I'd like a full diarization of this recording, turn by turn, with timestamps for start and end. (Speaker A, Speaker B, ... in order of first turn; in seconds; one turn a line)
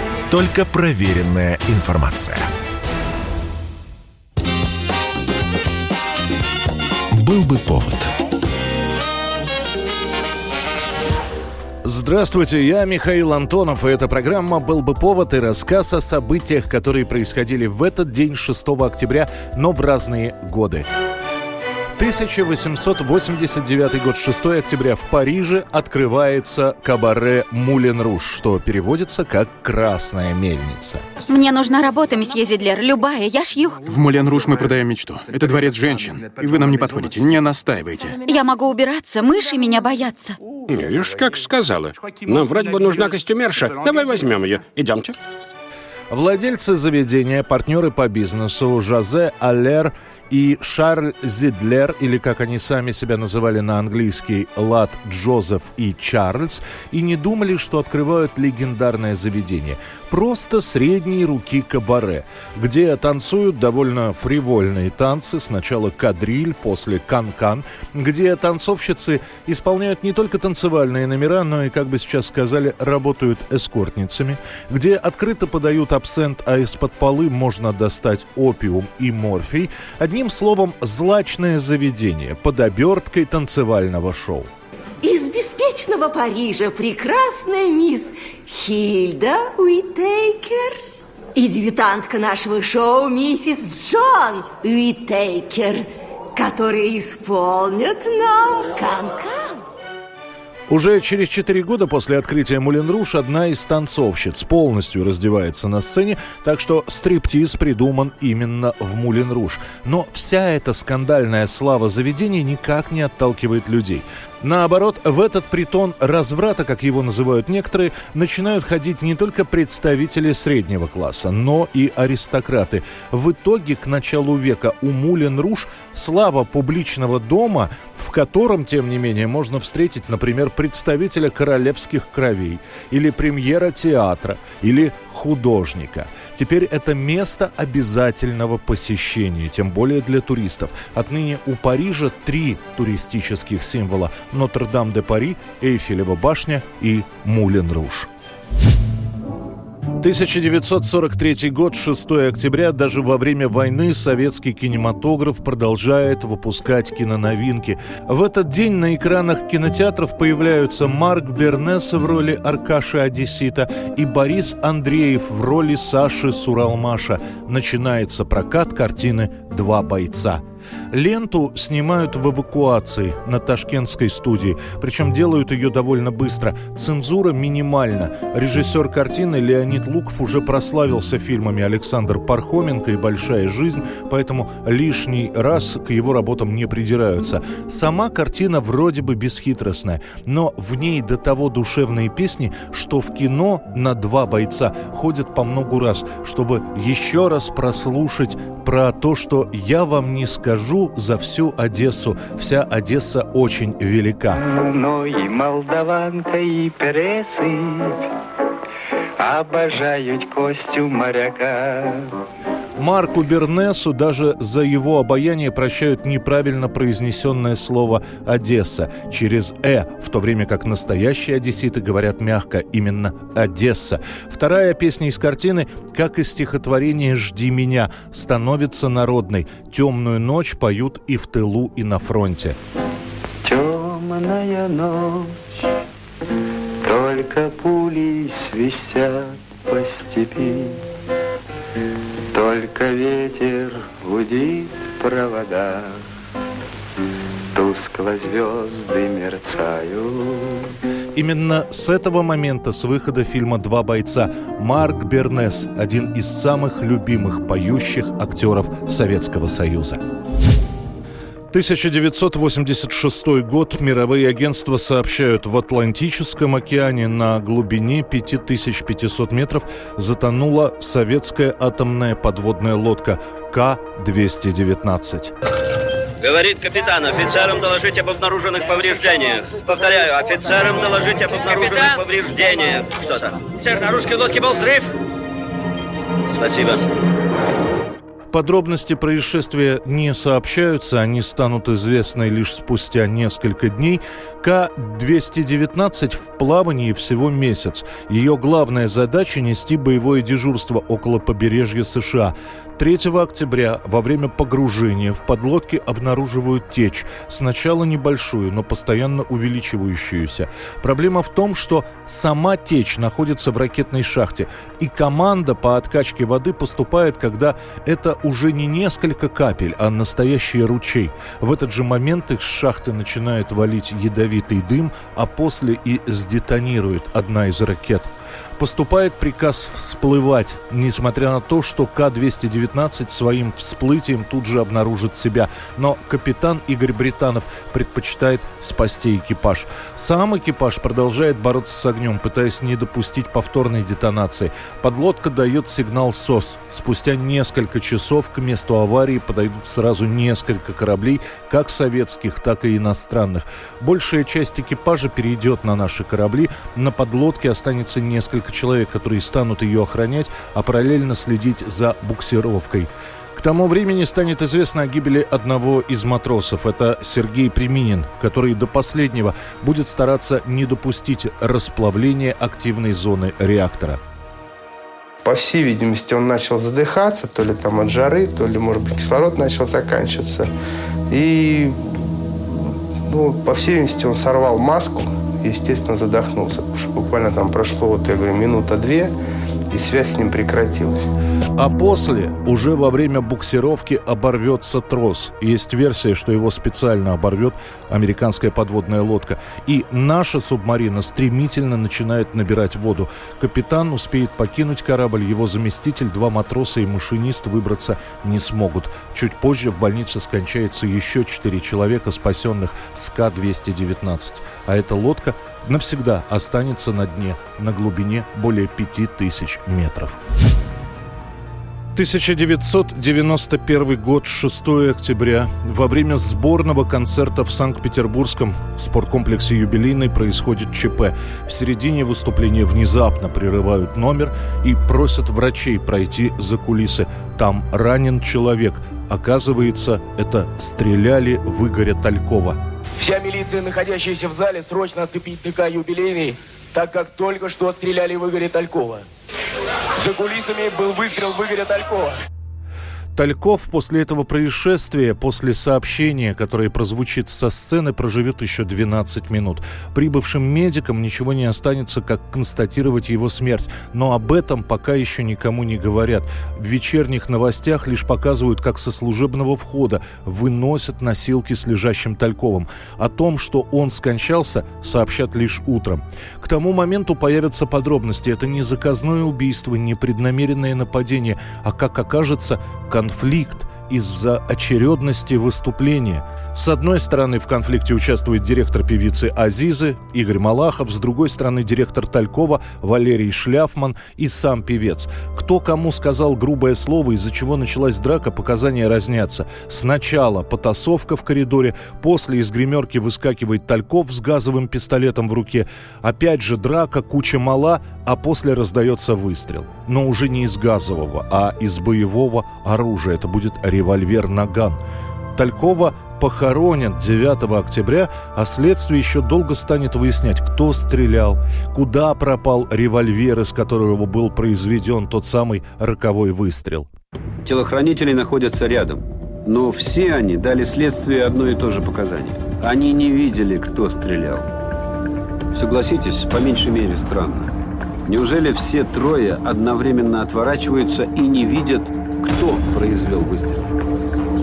Speaker A: 0.3-2.5
Speaker A: 7.1-8.1
Speaker B: 11.8-20.9
Speaker B: 22.0-31.0
Speaker C: 31.2-33.9
Speaker D: 33.8-38.2
Speaker C: 38.2-40.4
Speaker E: 40.7-45.2
Speaker B: 46.1-84.5
Speaker F: 85.0-90.8
Speaker F: 91.4-99.6
Speaker B: 100.7-148.1
Speaker B: 150.0-170.4
Speaker B: 170.9-204.4
Speaker G: 204.4-207.9
Speaker G: 209.2-212.1
Speaker B: 212.8-232.6
Speaker G: 233.4-235.4
Speaker G: 236.8-240.8
Speaker G: 242.3-246.0
Speaker G: 247.5-250.7
Speaker B: 251.2-260.0
Speaker B: 261.5-275.3
Speaker H: 276.2-284.9
Speaker H: 286.3-286.9
Speaker B: 288.3-374.0
Speaker I: 375.2-380.5
Speaker I: 381.1-381.8
Speaker I: 382.6-389.1
Speaker I: 389.7-391.0
Speaker B: 391.6-420.2
Speaker B: 421.9-442.6
Speaker J: 443.0-449.1
Speaker J: 450.0-452.2
Speaker B: 453.2-514.8
Speaker B: 515.4-526.9
Speaker K: 527.4-534.5
Speaker K: 535.5-537.5
Speaker K: 538.1-543.7